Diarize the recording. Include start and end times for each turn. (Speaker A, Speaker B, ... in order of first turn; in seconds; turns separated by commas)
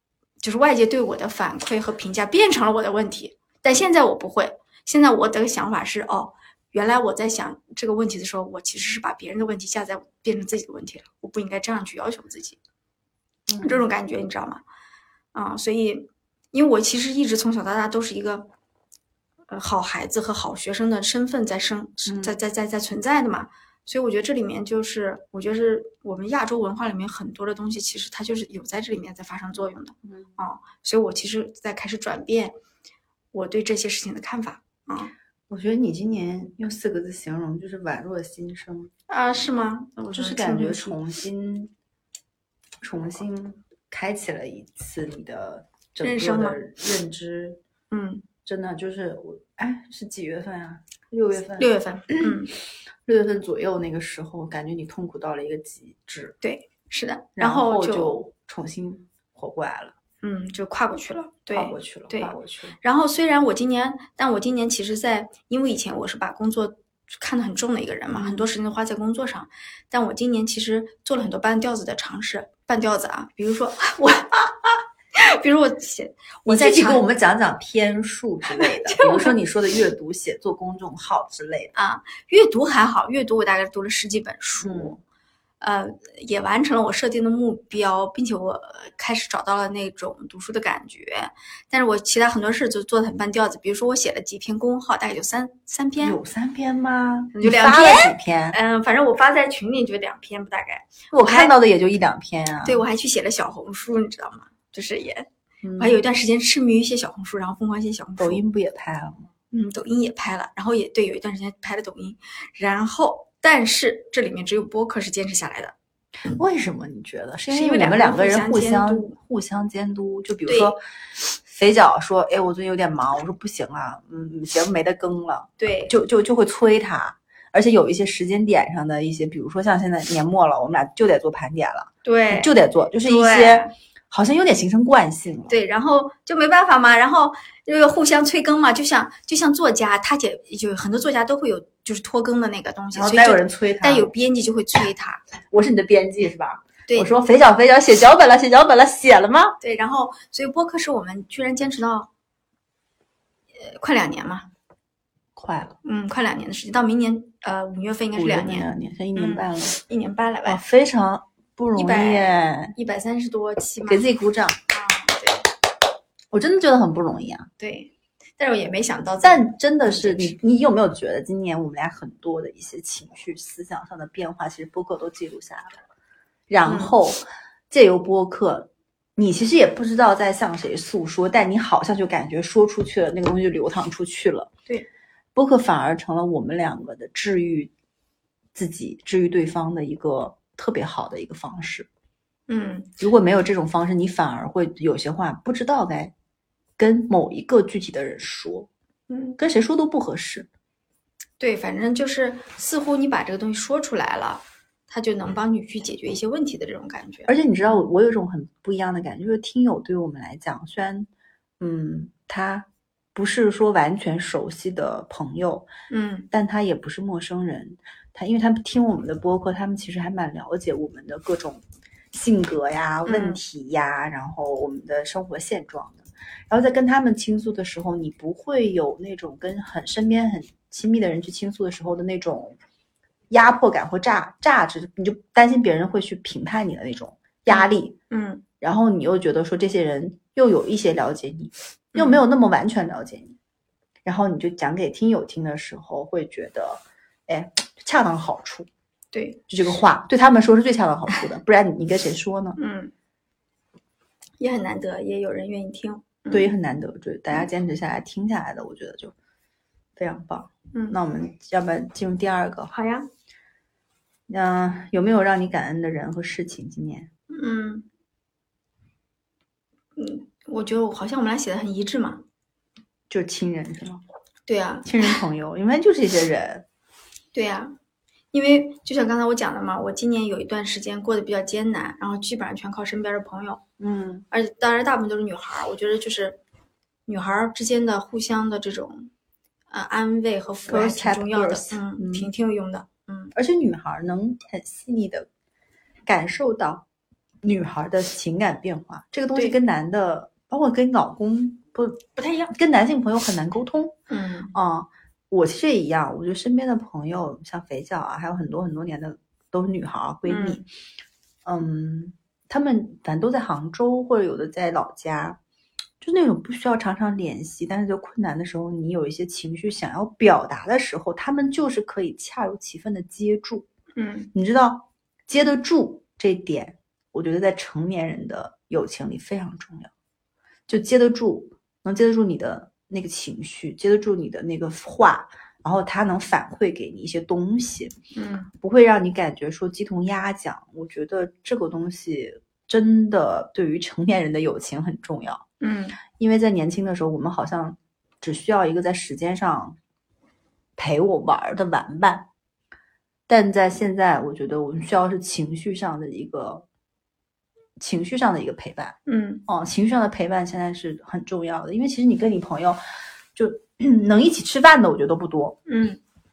Speaker A: 0.4-12.6, Speaker B: 13.5-13.8, Speaker A: 13.6-14.6, Speaker A: 15.3-18.5, Speaker A: 19.5-32.5, Speaker B: 22.1-22.4, Speaker A: 33.3-35.1, Speaker B: 35.5-38.9, Speaker A: 39.1-41.0, Speaker B: 40.1-41.7, Speaker B: 42.8-47.6, Speaker A: 46.0-46.6, Speaker A: 47.9-48.2, Speaker B: 48.4-52.4, Speaker A: 51.6-52.5, Speaker B: 53.0-56.3, Speaker A: 56.4-58.1, Speaker B: 57.4-59.9, Speaker A: 60.2-74.3, Speaker B: 61.5-62.8, Speaker B: 68.1-68.5, Speaker A: 75.1-77.0, Speaker B: 76.5-81.7, Speaker A: 78.6-79.3, Speaker A: 81.7-85.0, Speaker B: 84.6-85.0, Speaker A: 85.6-96.2, Speaker B: 96.0-98.6, Speaker A: 97.3-101.5, Speaker B: 101.1-102.8, Speaker A: 102.6-105.3, Speaker B: 105.6-106.0, Speaker A: 105.8-108.4, Speaker B: 108.2-109.3, Speaker A: 109.5-115.7, Speaker B: 116.3-135.6, Speaker A: 117.5-119.2, Speaker A: 120.5-120.8, Speaker A: 125.6-125.9, Speaker A: 132.0-133.7, Speaker A: 135.5-145.2, Speaker B: 142.9-144.1, Speaker B: 145.5-149.6, Speaker A: 146.9-147.1, Speaker A: 149.6-152.1, Speaker A: 153.6-154.5, Speaker B: 155.3-155.8, Speaker A: 155.8-160.6, Speaker B: 158.1-159.8, Speaker B: 160.4-162.8, Speaker A: 161.8-164.1, Speaker B: 163.8-164.6, Speaker A: 164.7-165.5, Speaker B: 166.3-167.5, Speaker A: 167.6-170.4, Speaker B: 169.2-175.8, Speaker B: 176.5-184.5, Speaker A: 176.6-176.9, Speaker B: 185.3-187.7, Speaker B: 188.5-191.9, Speaker A: 192.5-192.9, Speaker B: 193.0-196.1, Speaker B: 196.8-198.7, Speaker A: 199.1-199.4, Speaker B: 199.4-200.5, Speaker A: 201.4-207.8, Speaker B: 207.3-211.1, Speaker B: 211.6-215.7, Speaker A: 215.9-216.3, Speaker B: 216.3-232.6, Speaker A: 223.1-223.4, Speaker B: 233.3-238.0, Speaker A: 237.5-238.4, Speaker B: 238.6-243.3, Speaker A: 241.9-242.2, Speaker B: 244.0-248.7, Speaker A: 249.1-249.4, Speaker B: 249.5-252.6, Speaker A: 252.6-252.9, Speaker A: 254.4-256.5, Speaker B: 256.3-259.1, Speaker B: 259.9-262.7, Speaker A: 262.7-263.1, Speaker B: 264.3-267.1, Speaker A: 267.3-267.9, Speaker A: 269.9-272.2, Speaker B: 273.1-274.0, Speaker A: 274.5-275.2, Speaker B: 274.8-276.6, Speaker A: 277.3-277.7, Speaker A: 278.3-283.6, Speaker B: 283.8-284.2, Speaker A: 284.3-286.4, Speaker A: 287.1-289.1, Speaker A: 289.7-293.3, Speaker B: 290.7-292.3, Speaker B: 293.3-295.3, Speaker B: 296.1-296.8, Speaker B: 297.4-303.9, Speaker A: 302.2-302.5, Speaker A: 304.1-304.5, Speaker B: 304.5-310.6, Speaker A: 310.2-310.6, Speaker B: 311.4-315.4, Speaker B: 316.0-323.7, Speaker A: 323.9-324.3, Speaker B: 324.3-329.9, Speaker B: 330.7-337.9, Speaker A: 338.1-338.5, Speaker B: 338.6-345.4, Speaker A: 345.6-346.0, Speaker B: 346.1-349.8, Speaker B: 350.8-352.3, Speaker B: 353.3-356.6, Speaker B: 357.8-362.8, Speaker A: 359.1-359.4, Speaker B: 363.3-365.6, Speaker A: 365.7-366.0